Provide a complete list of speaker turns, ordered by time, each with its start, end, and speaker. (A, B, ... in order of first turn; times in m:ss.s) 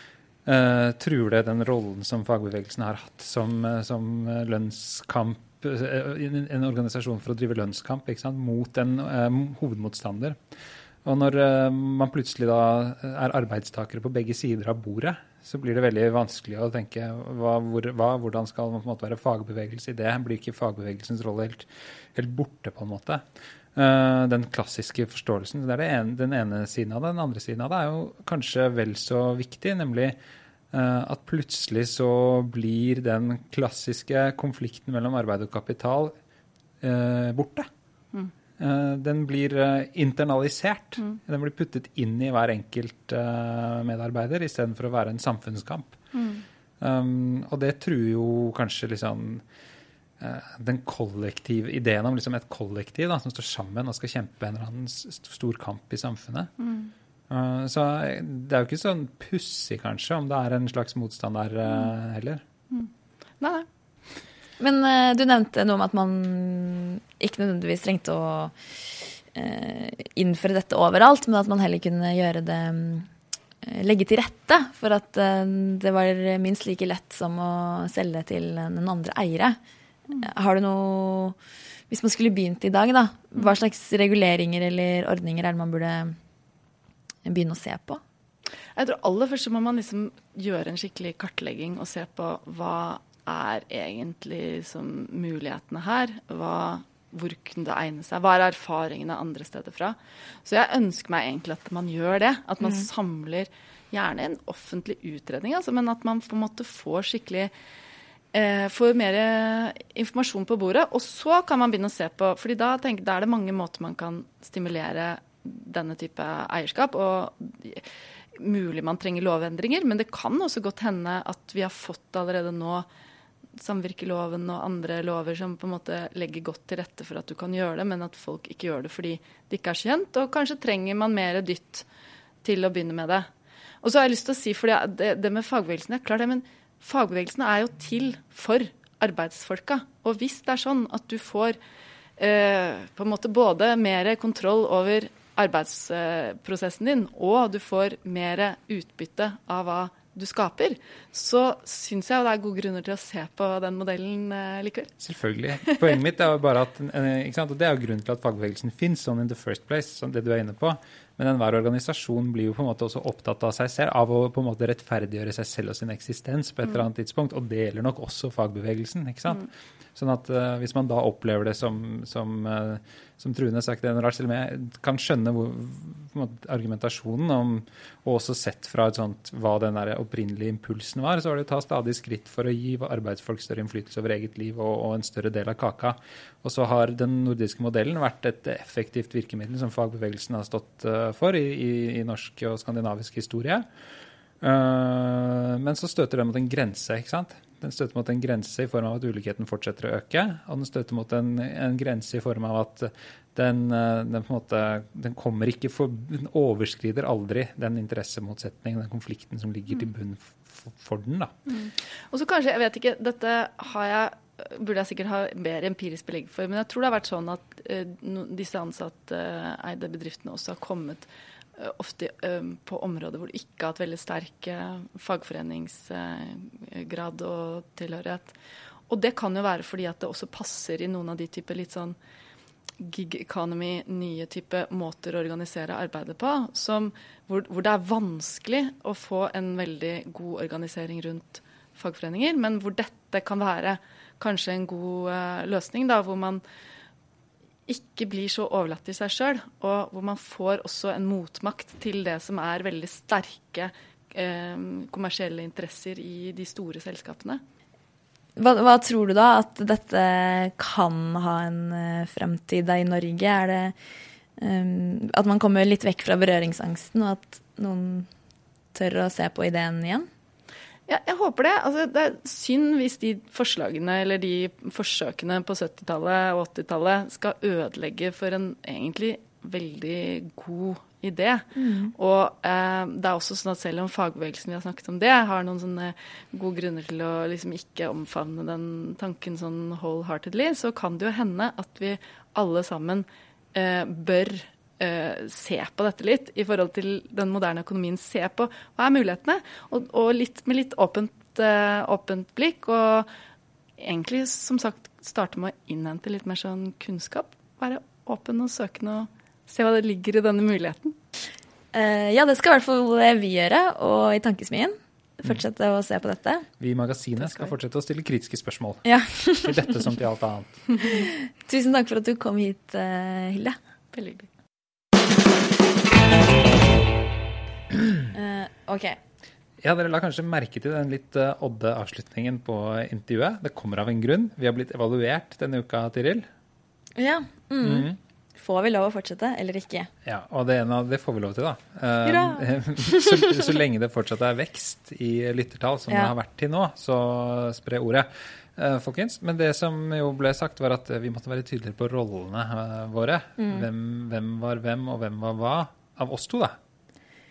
0:00.4-0:10.4 A
0:11.0-0:30.2 A
0:30.7-0:36.1 A
0:36.8-0:37.7 A
0:38.6-0:46.0 A
0:46.1-0:46.4 B
0:46.8-0:49.4 A
0:50.2-0:56.5 A
0:56.6-0:56.9 B
0:57.3-1:02.4 A
1:03.4-1:03.7 B
1:04.6-1:08.5 C
1:09.3-1:13.1 C
1:13.6-1:19.6 C
1:20.1-1:21.4 C
1:21.9-1:26.2 C
1:27.2-1:28.0 C
1:28.7-1:47.5 B
1:48.3-2:02.8 B
2:03.6-2:11.8 B
2:12.4-2:13.3 B
2:13.8-2:21.6 B
2:22.2-2:34.9 B
2:35.0-3:13.7 A
3:14.4-3:31.3 A
3:31.5-3:48.3 B
3:48.9-3:52.0 B
3:52.8-4:06.4 B
4:07.7-4:17.4 B
4:18.4-4:23.7 C
4:24.4-4:28.1 C
4:28.7-4:30.1 C
4:30.9-5:03.1 B
4:41.6-4:41.9 C
5:03.8-5:11.0 B
5:11.7-5:16.5 C
5:16.6-5:18.8 A
5:18.8-5:19.9 C
5:19.4-5:20.7 A
5:20.8-5:23.6 C
5:23.9-5:24.3 B
5:27.7-5:28.0 A
5:28.1-5:29.0 C
5:29.6-5:36.2 A
5:37.0-5:39.9 C
5:37.6-5:38.0 A
5:40.0-5:56.6 A
5:42.0-5:43.5 C
5:53.4-5:53.7 C